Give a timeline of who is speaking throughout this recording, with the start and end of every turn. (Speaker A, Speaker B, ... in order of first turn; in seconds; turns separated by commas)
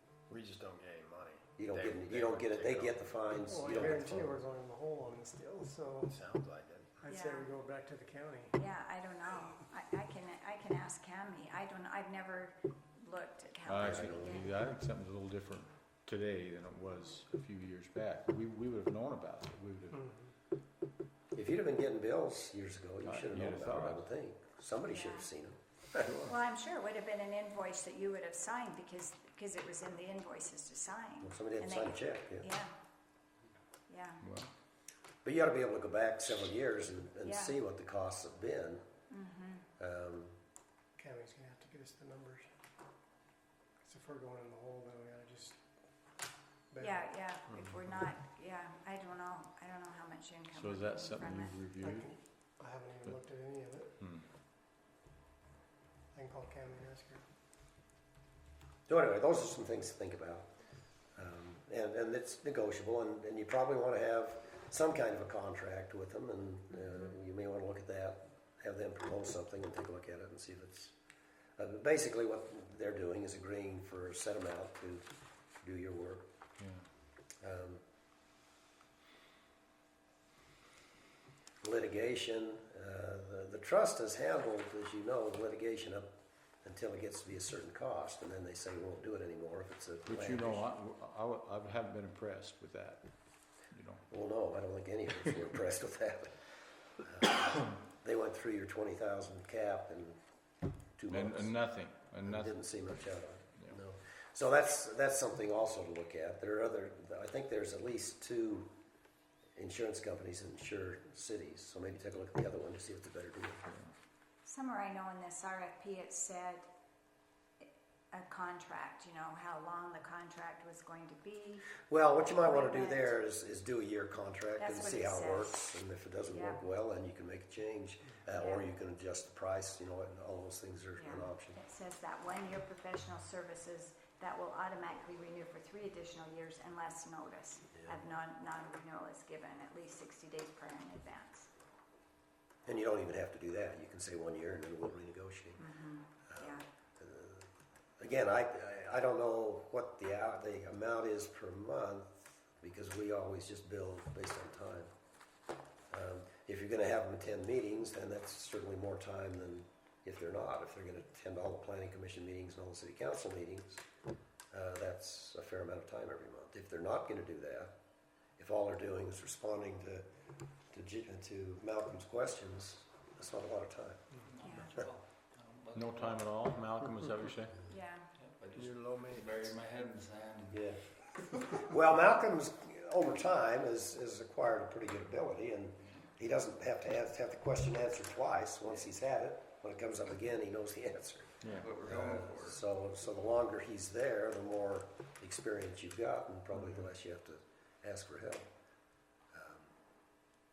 Speaker A: 0.3-3.0, Speaker B: 1.6-4.4, Speaker C: 3.5-6.2, Speaker A: 6.1-6.9, Speaker C: 7.0-8.6, Speaker D: 7.1-7.5, Speaker D: 8.6-14.5, Speaker E: 13.6-20.0, Speaker B: 13.8-14.4, Speaker C: 19.9-20.3, Speaker B: 21.3-26.1, Speaker E: 23.0-24.0, Speaker D: 24.9-25.2, Speaker E: 26.0-26.3, Speaker D: 26.2-32.7, Speaker B: 31.2-32.5, Speaker D: 33.9-34.2, Speaker E: 34.2-34.5, Speaker B: 35.2-38.8, Speaker D: 37.2-37.5, Speaker D: 39.1-39.6, Speaker B: 39.8-40.3, Speaker C: 41.0-42.5, Speaker C: 43.8-45.6, Speaker C: 46.7-47.0, Speaker D: 46.8-51.5, Speaker E: 50.5-52.0, Speaker C: 51.8-53.9, Speaker E: 54.0-54.3, Speaker C: 56.1-57.2, Speaker B: 58.9-60.5, Speaker B: 61.1-71.0, Speaker B: 71.6-75.1, Speaker B: 75.6-76.2, Speaker E: 76.6-76.9, Speaker B: 77.4-77.8, Speaker B: 81.6-86.1, Speaker B: 86.6-90.7, Speaker E: 90.1-94.1, Speaker B: 94.1-96.5, Speaker B: 97.0-100.2, Speaker B: 101.0-101.5, Speaker E: 101.1-102.7, Speaker B: 102.2-108.7, Speaker B: 109.6-113.8, Speaker D: 114.5-116.7, Speaker D: 117.6-123.1, Speaker B: 121.9-131.6, Speaker D: 124.6-125.6, Speaker D: 126.3-126.6, Speaker D: 128.4-128.7, Speaker D: 130.9-141.5, Speaker B: 142.7-145.6, Speaker D: 145.6-146.6, Speaker B: 146.3-154.9, Speaker B: 155.9-163.8, Speaker B: 164.5-167.7, Speaker B: 168.4-170.0, Speaker B: 170.7-174.1, Speaker F: 174.2-176.3, Speaker D: 174.4-174.7, Speaker E: 175.7-177.6, Speaker D: 177.7-178.1, Speaker F: 178.2-181.4, Speaker B: 180.5-180.8, Speaker B: 181.4-198.5, Speaker E: 191.4-191.7, Speaker F: 191.5-192.6, Speaker B: 199.3-199.7